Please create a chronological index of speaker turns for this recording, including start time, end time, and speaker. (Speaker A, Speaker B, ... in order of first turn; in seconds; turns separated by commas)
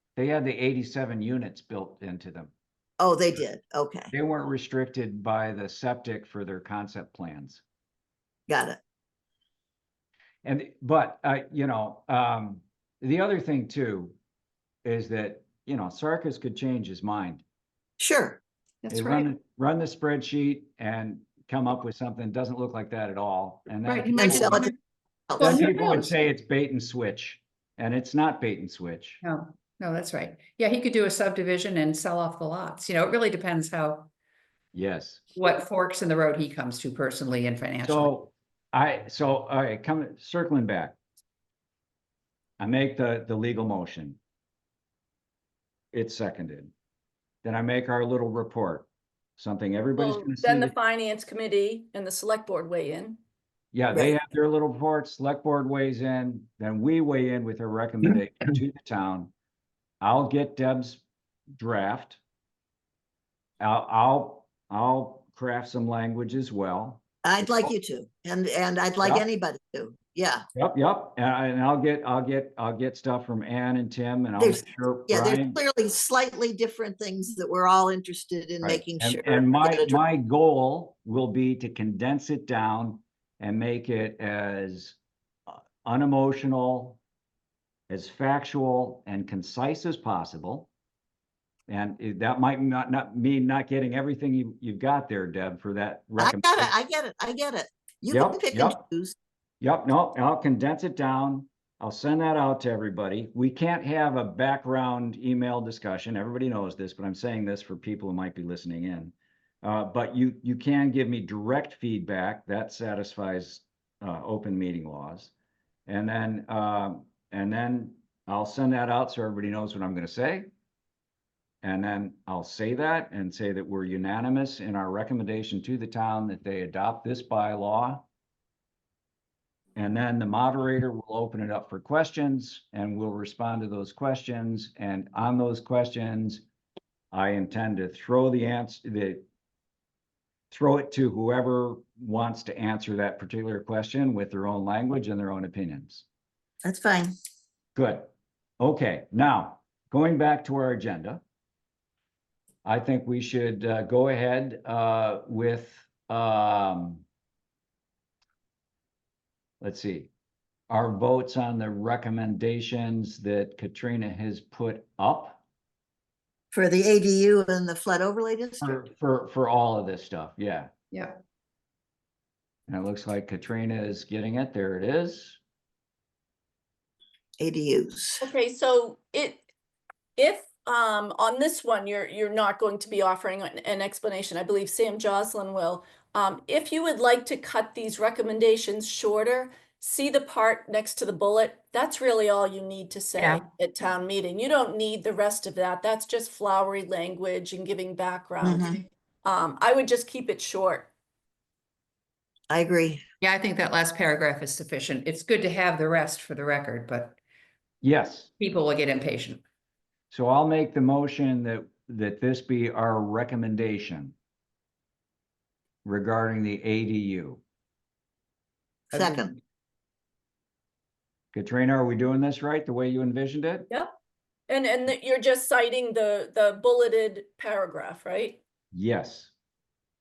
Speaker A: 0.1-2.5, Speaker B: 3.0-4.1, Speaker A: 4.1-7.6, Speaker B: 8.5-8.8, Speaker A: 10.4-14.2, Speaker A: 14.8-17.4, Speaker B: 18.0-18.4, Speaker C: 18.8-19.3, Speaker A: 18.9-24.6, Speaker C: 23.8-24.8, Speaker B: 24.1-24.7, Speaker B: 25.3-25.7, Speaker D: 25.4-26.0, Speaker A: 25.4-29.2, Speaker C: 29.2-34.1, Speaker A: 34.7-35.3, Speaker C: 35.3-38.1, Speaker A: 37.8-41.0, Speaker A: 42.6-44.2, Speaker A: 45.9-46.7, Speaker A: 47.4-50.7, Speaker D: 50.0-53.2, Speaker A: 53.7-59.3, Speaker A: 60.0-62.2, Speaker A: 63.6-67.0, Speaker B: 67.2-70.4, Speaker A: 70.5-75.6, Speaker B: 74.4-80.0, Speaker A: 78.6-87.0, Speaker A: 87.9-90.7, Speaker A: 91.7-96.7, Speaker B: 96.2-99.2, Speaker A: 98.1-98.8, Speaker A: 99.6-115.3, Speaker A: 115.9-120.5, Speaker A: 121.6-128.1, Speaker A: 129.8-136.4, Speaker A: 137.1-139.2, Speaker A: 140.5-146.1, Speaker B: 146.6-147.1, Speaker A: 147.7-151.2, Speaker A: 152.6-157.0, Speaker A: 159.6-160.1, Speaker A: 160.7-165.4, Speaker B: 166.5-168.8, Speaker A: 168.6-170.7, Speaker C: 170.9-171.2, Speaker A: 172.7-175.4, Speaker B: 177.4-178.2, Speaker D: 178.2-179.4, Speaker D: 180.2-200.9, Speaker C: 193.2-193.4, Speaker B: 198.4-198.8, Speaker B: 202.5-203.0, Speaker C: 203.2-207.2, Speaker A: 207.8-208.3, Speaker C: 208.4-209.4, Speaker A: 210.1-214.1, Speaker A: 215.8-217.4, Speaker B: 218.9-219.4, Speaker C: 218.9-219.2, Speaker A: 221.3-223.7, Speaker D: 224.5-228.4, Speaker A: 228.7-229.3